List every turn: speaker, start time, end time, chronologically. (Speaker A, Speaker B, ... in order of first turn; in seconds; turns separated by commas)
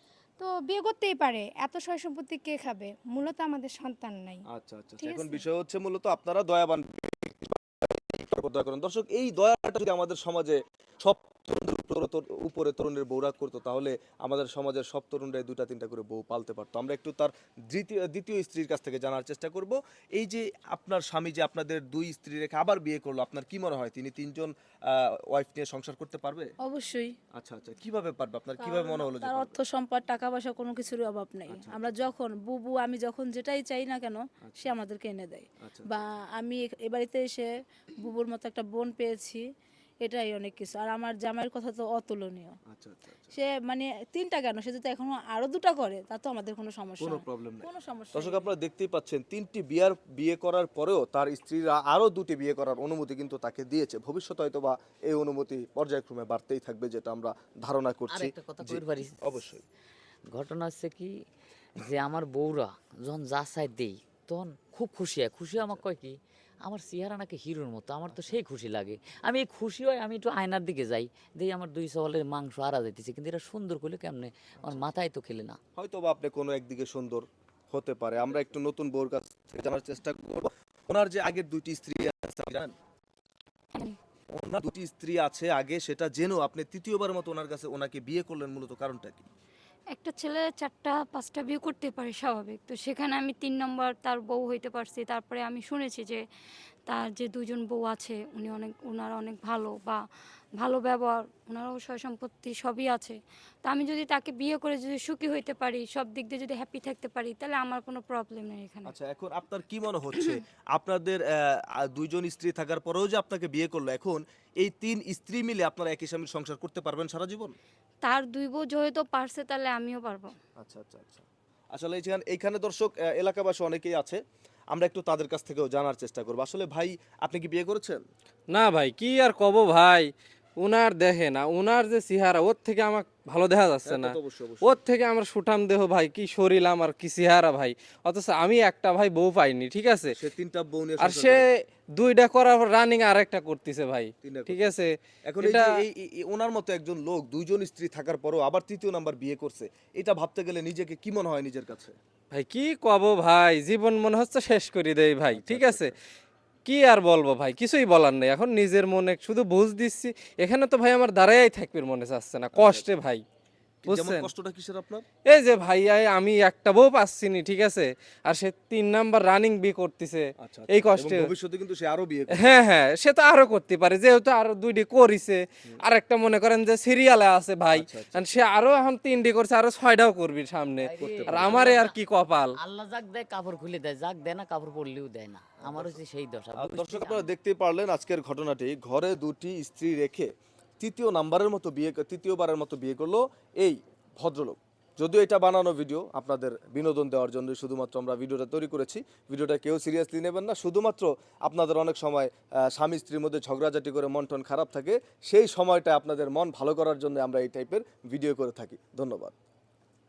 Speaker A: 0.4-4.4, Speaker B: 4.5-26.5, Speaker A: 5.0-5.4, Speaker C: 26.6-27.1, Speaker B: 27.3-29.6, Speaker C: 28.6-39.4, Speaker B: 31.5-31.9, Speaker B: 34.4-34.8, Speaker B: 35.6-35.9, Speaker C: 40.0-42.5, Speaker B: 42.7-43.3, Speaker C: 43.3-48.5, Speaker B: 47.0-59.6, Speaker D: 58.1-59.3, Speaker D: 60.3-61.1, Speaker D: 61.8-75.6, Speaker B: 65.6-65.8, Speaker B: 68.1-68.4, Speaker B: 75.8-82.7, Speaker B: 84.3-89.3, Speaker E: 89.9-96.2, Speaker E: 96.9-100.0, Speaker E: 100.6-108.9, Speaker B: 108.8-117.5, Speaker E: 118.0-120.3, Speaker B: 120.6-124.2, Speaker B: 124.7-128.0, Speaker F: 128.5-140.1, Speaker B: 133.8-134.8, Speaker B: 140.1-141.4, Speaker F: 141.0-141.4, Speaker F: 141.9-145.7, Speaker B: 144.2-144.7, Speaker B: 145.3-151.9, Speaker F: 152.3-155.9, Speaker B: 155.3-155.9, Speaker F: 156.7-163.2, Speaker B: 162.5-162.8, Speaker B: 163.8-165.0, Speaker F: 163.9-164.3, Speaker F: 165.3-171.2, Speaker B: 170.4-172.5, Speaker F: 172.3-182.5, Speaker B: 177.7-178.3, Speaker D: 180.8-182.0, Speaker B: 181.0-181.7, Speaker D: 182.6-187.3, Speaker B: 185.6-186.0, Speaker B: 186.6-209.3